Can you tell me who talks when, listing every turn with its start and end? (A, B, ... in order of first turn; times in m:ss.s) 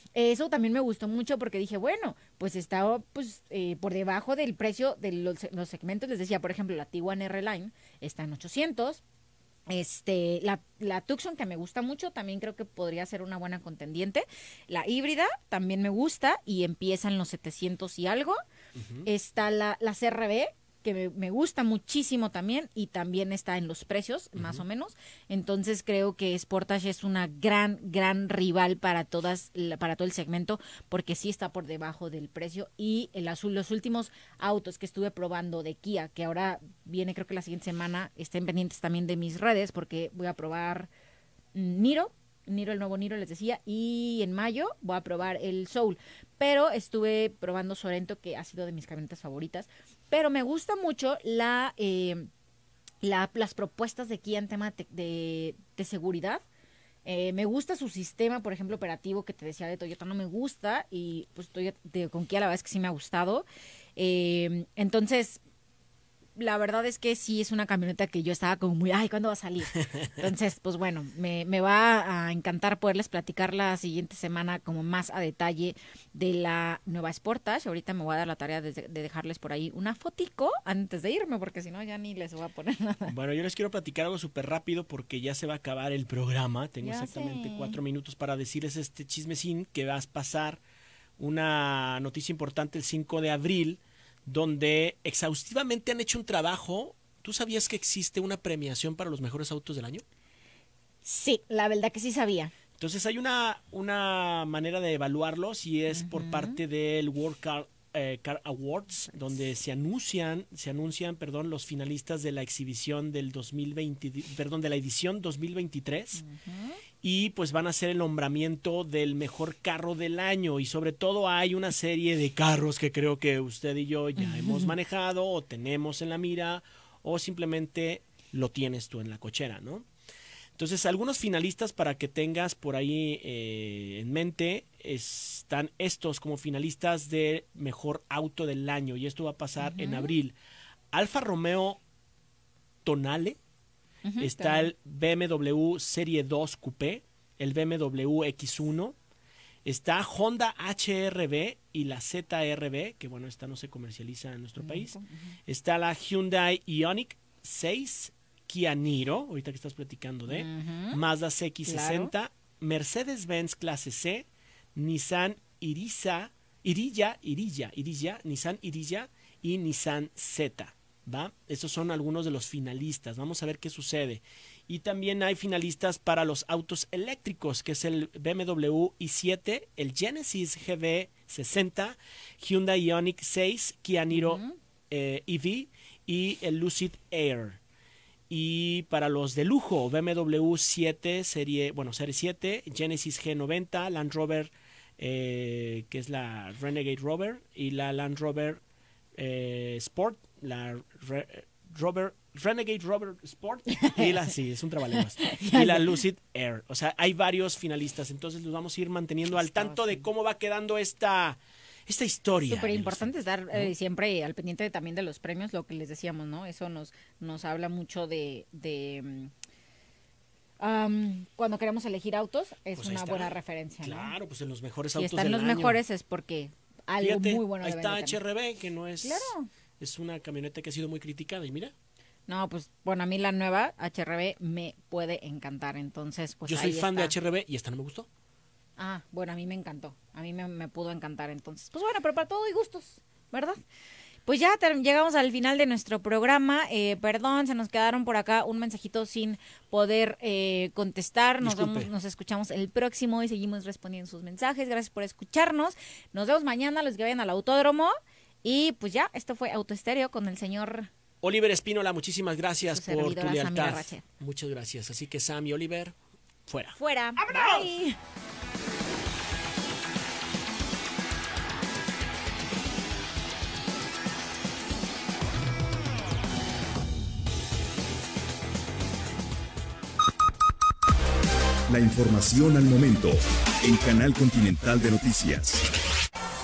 0:00.2-0:09.0 A
0:09.7-0:18.4 A
0:18.8-0:19.1 B
0:19.1-0:40.9 A
0:24.4-0:24.6 B
0:41.5-0:52.3 A
0:53.0-0:56.4 A
0:57.1-1:05.4 A
1:06.4-1:23.1 A
1:09.8-1:10.1 B
1:23.1-1:30.6 B
1:26.8-1:27.8 A
1:31.2-1:40.0 B
1:41.0-1:42.5 A
1:42.8-1:56.2 B
1:45.9-1:46.6 A
1:56.2-1:56.8 A
1:57.0-2:09.9 B
2:04.2-2:04.8 A
2:10.6-2:20.3 B
2:19.6-2:20.1 A
2:20.9-2:21.8 B
2:22.8-2:23.4 B
2:24.1-2:24.7 A
2:24.2-2:29.0 B
2:29.6-3:07.6 B
2:34.6-2:35.3 A
2:40.3-2:41.0 A
2:41.7-2:42.1 A
3:04.1-3:04.6 A
3:08.3-3:18.6 B
3:19.2-3:33.7 B
3:23.8-3:24.1 A
3:25.3-3:26.0 A
3:29.3-3:30.1 A
3:32.5-3:39.3 A
3:40.6-3:44.1 A
3:42.8-3:45.8 B
3:45.0-3:48.2 A
3:47.0-3:51.7 B
3:49.0-3:49.5 A
3:52.3-3:57.1 A
3:56.4-3:58.1 B
3:58.8-4:03.6 A
4:04.3-4:20.9 A
4:11.4-4:11.9 B
4:21.2-4:26.0 B
4:22.6-4:24.0 A
4:26.5-4:27.7 B
4:26.8-4:28.0 A
4:41.7-4:45.7 C